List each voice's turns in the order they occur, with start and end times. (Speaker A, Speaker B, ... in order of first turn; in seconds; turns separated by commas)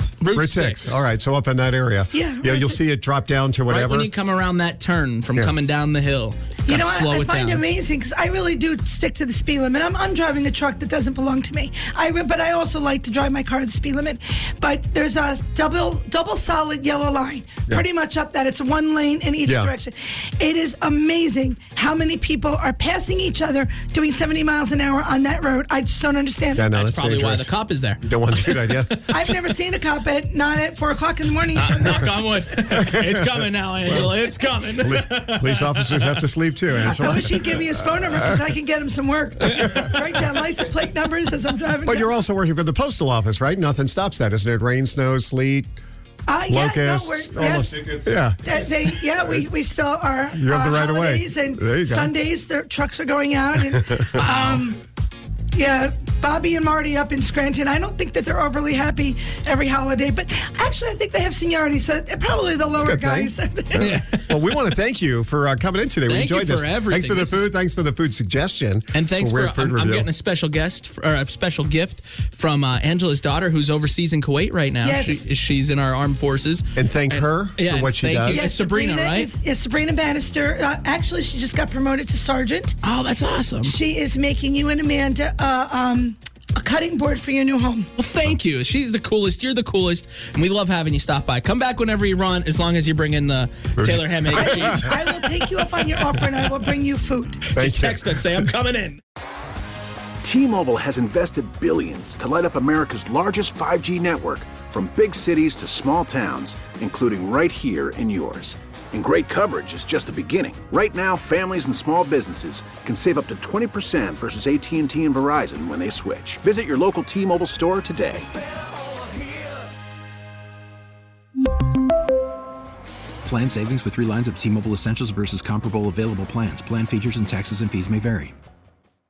Speaker A: 0.2-1.0, Speaker B: 0.3-4.1, Speaker C: 2.1-2.8, Speaker A: 3.7-7.6, Speaker C: 6.7-26.7, Speaker B: 19.5-19.7, Speaker B: 26.6-27.5, Speaker A: 26.7-28.7, Speaker B: 28.0-29.1, Speaker C: 29.1-32.0, Speaker A: 31.6-36.2, Speaker B: 32.8-38.2, Speaker C: 36.8-42.2, Speaker B: 41.9-45.7, Speaker C: 46.3-47.9, Speaker B: 46.5-49.5, Speaker C: 48.4-54.8, Speaker B: 50.4-52.1, Speaker A: 54.1-54.6, Speaker C: 55.5-64.0, Speaker B: 62.8-70.1, Speaker A: 63.8-64.3, Speaker A: 66.1-67.5, Speaker A: 68.9-79.3, Speaker C: 74.8-75.2, Speaker B: 76.8-78.5, Speaker C: 78.3-82.8, Speaker A: 82.8-83.8, Speaker C: 83.6-87.9, Speaker A: 88.0-95.3, Speaker B: 93.8-94.9, Speaker C: 94.3-97.5, Speaker A: 97.5-99.0, Speaker B: 97.5-98.3, Speaker D: 100.2-118.3, Speaker E: 123.2-128.3